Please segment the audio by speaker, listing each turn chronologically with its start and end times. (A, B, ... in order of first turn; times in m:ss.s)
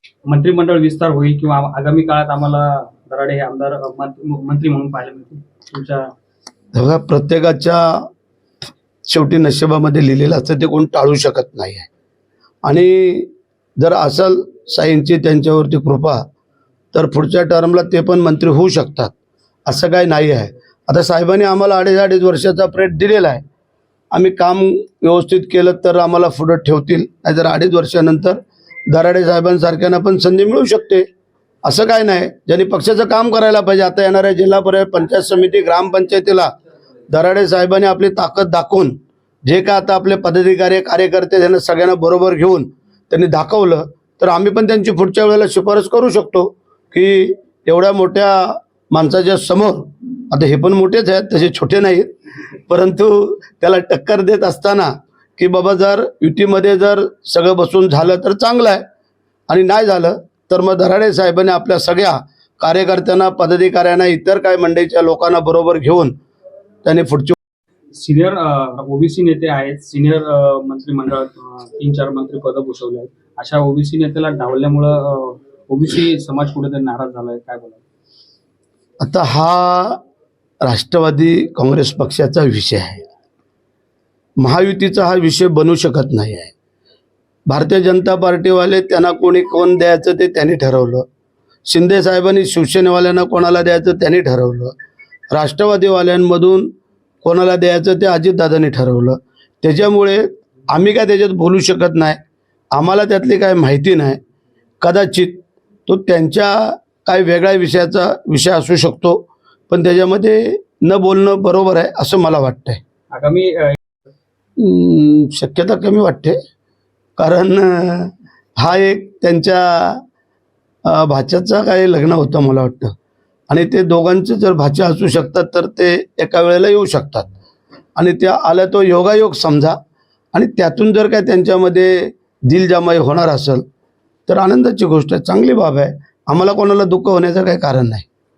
0:00.2-0:06.0 A
0:06.7-0:07.8 B
0:09.0-0:11.9 B
0:12.6-0:16.2 B
0:16.9-0:19.1 B
0:19.6-0:23.4 B
0:24.1-0:31.0 B
0:31.6-0:36.5 B
0:37.1-0:52.1 B
0:52.7-0:58.8 B
0:59.5-1:06.1 B
1:06.8-1:07.4 B
1:07.9-1:17.8 A
1:19.0-1:20.0 B
1:20.6-1:23.0 B
1:24.4-1:26.5 B
1:27.5-1:31.0 B
1:31.7-1:34.7 B
1:35.3-1:36.7 B
1:37.2-1:42.2 B
1:42.7-1:44.2 B
1:44.8-1:52.8 B
1:53.1-1:53.8 A
1:54.6-1:56.4 B
1:57.2-2:00.0 B
2:00.9-2:02.9 B
2:03.5-2:07.3 B
2:08.0-2:09.8 B
2:10.3-2:13.6 B
2:14.3-2:18.0 B